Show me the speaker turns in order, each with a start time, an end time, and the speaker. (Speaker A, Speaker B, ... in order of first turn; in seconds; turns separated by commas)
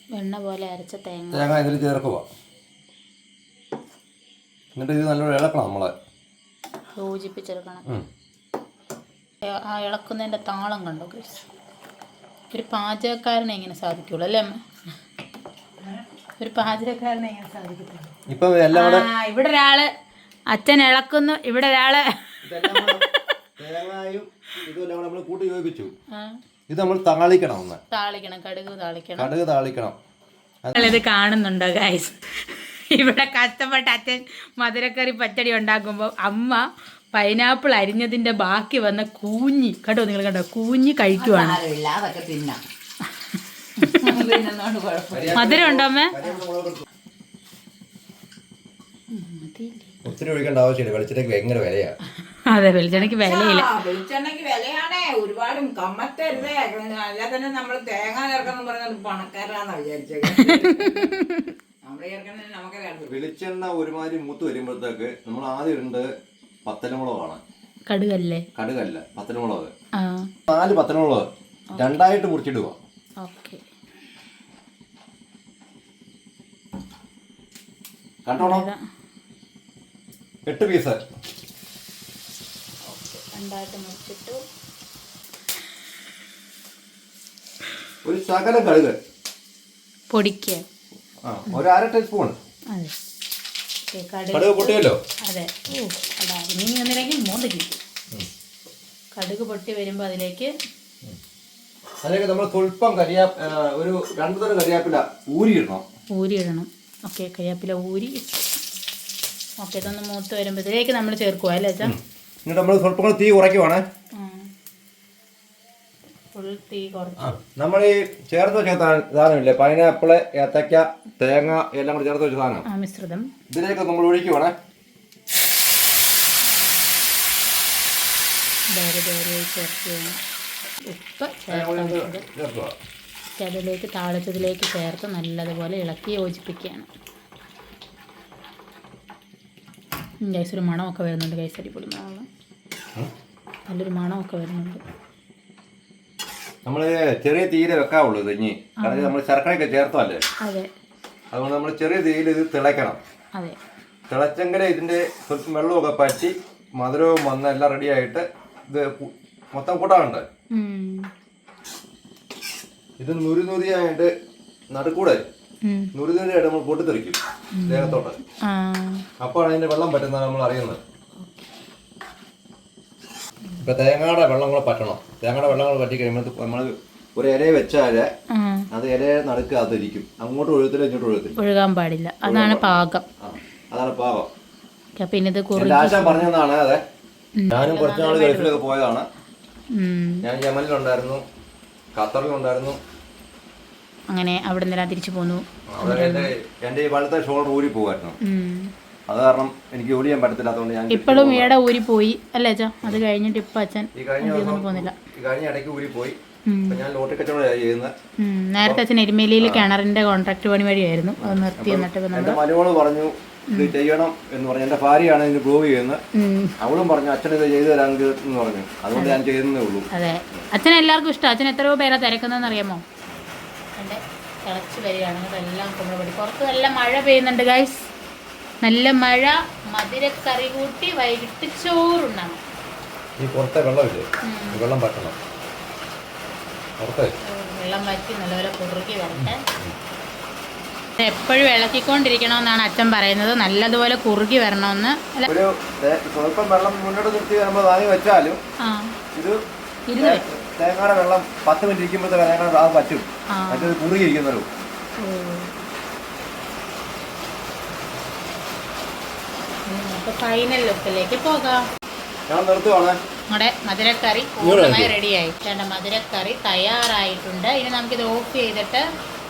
Speaker A: 0.1-1.5, Speaker B: 1.3-2.3, Speaker B: 4.8-5.9, Speaker A: 7.0-7.9, Speaker A: 9.4-11.4, Speaker A: 12.5-14.6, Speaker A: 16.4-18.1, Speaker B: 18.3-19.1, Speaker A: 18.7-19.9, Speaker A: 20.5-23.1, Speaker B: 22.4-23.1, Speaker B: 23.6-25.9, Speaker A: 26.1-26.4, Speaker B: 26.7-27.8, Speaker A: 27.9-29.3, Speaker B: 29.2-30.0, Speaker B: 30.6-31.0, Speaker A: 30.8-41.6, Speaker C: 41.2-42.6, Speaker A: 43.8-44.1, Speaker C: 43.8-45.5, Speaker B: 45.1-46.9, Speaker A: 45.4-46.3, Speaker A: 49.1-50.0, Speaker B: 50.0-52.0, Speaker A: 52.5-53.7, Speaker C: 52.9-61.2, Speaker A: 60.3-61.5, Speaker C: 61.8-63.1, Speaker B: 63.1-66.1, Speaker B: 66.7-67.4, Speaker A: 67.9-68.5, Speaker B: 68.5-69.7, Speaker A: 70.0-70.3, Speaker B: 70.5-72.8, Speaker A: 73.2-73.6, Speaker B: 78.2-78.7, Speaker A: 78.4-78.8, Speaker B: 80.5-81.0, Speaker A: 82.9-84.5, Speaker B: 88.0-89.0, Speaker A: 90.1-90.6, Speaker B: 91.2-92.4, Speaker A: 93.9-97.8, Speaker B: 94.3-95.0, Speaker A: 99.2-100.5, Speaker B: 102.0-105.8, Speaker A: 106.1-108.6, Speaker A: 109.6-112.0, Speaker B: 111.8-113.8, Speaker A: 114.2-114.5, Speaker A: 116.3-117.4, Speaker B: 117.2-122.7, Speaker A: 122.7-123.3, Speaker B: 123.5-124.5, Speaker A: 128.7-130.2, Speaker A: 130.9-132.2, Speaker B: 131.5-132.8, Speaker A: 133.4-136.9, Speaker A: 140.2-142.3, Speaker A: 143.7-144.8, Speaker B: 146.7-150.2, Speaker A: 148.8-149.2, Speaker A: 150.4-150.7, Speaker B: 151.3-153.0, Speaker B: 154.1-160.3, Speaker A: 160.5-161.1, Speaker B: 163.0-164.1, Speaker B: 164.7-165.2, Speaker A: 165.7-165.9, Speaker B: 165.9-168.2, Speaker A: 167.5-169.1, Speaker B: 169.2-170.8, Speaker B: 173.6-178.1, Speaker A: 178.3-178.7, Speaker B: 178.7-181.4, Speaker A: 181.4-183.1, Speaker B: 182.2-184.3, Speaker A: 185.0-186.3, Speaker B: 185.6-186.8, Speaker A: 187.4-188.6, Speaker B: 187.5-189.1, Speaker A: 189.7-190.2, Speaker B: 190.2-191.2, Speaker B: 191.9-192.8, Speaker A: 194.1-196.3, Speaker B: 195.7-198.2, Speaker A: 198.2-198.7, Speaker B: 199.1-201.5, Speaker A: 200.9-204.9, Speaker B: 203.9-206.2, Speaker A: 206.5-206.8, Speaker B: 206.7-207.9, Speaker A: 208.2-212.4, Speaker B: 209.4-209.7, Speaker B: 211.2-216.0, Speaker A: 216.2-216.5, Speaker B: 216.6-220.5, Speaker A: 218.9-219.2, Speaker A: 219.9-222.8, Speaker A: 223.8-227.9, Speaker A: 228.6-232.4, Speaker B: 233.2-235.2, Speaker A: 234.2-234.6, Speaker B: 236.8-237.1, Speaker A: 237.2-239.4, Speaker B: 239.2-239.8, Speaker A: 241.0-245.3, Speaker B: 245.3-248.4, Speaker A: 248.6-248.9, Speaker A: 249.9-250.2, Speaker B: 250.0-254.5, Speaker A: 253.3-253.8, Speaker A: 255.0-255.5, Speaker A: 259.7-261.6, Speaker B: 262.3-263.0, Speaker A: 263.3-268.9, Speaker B: 264.4-264.9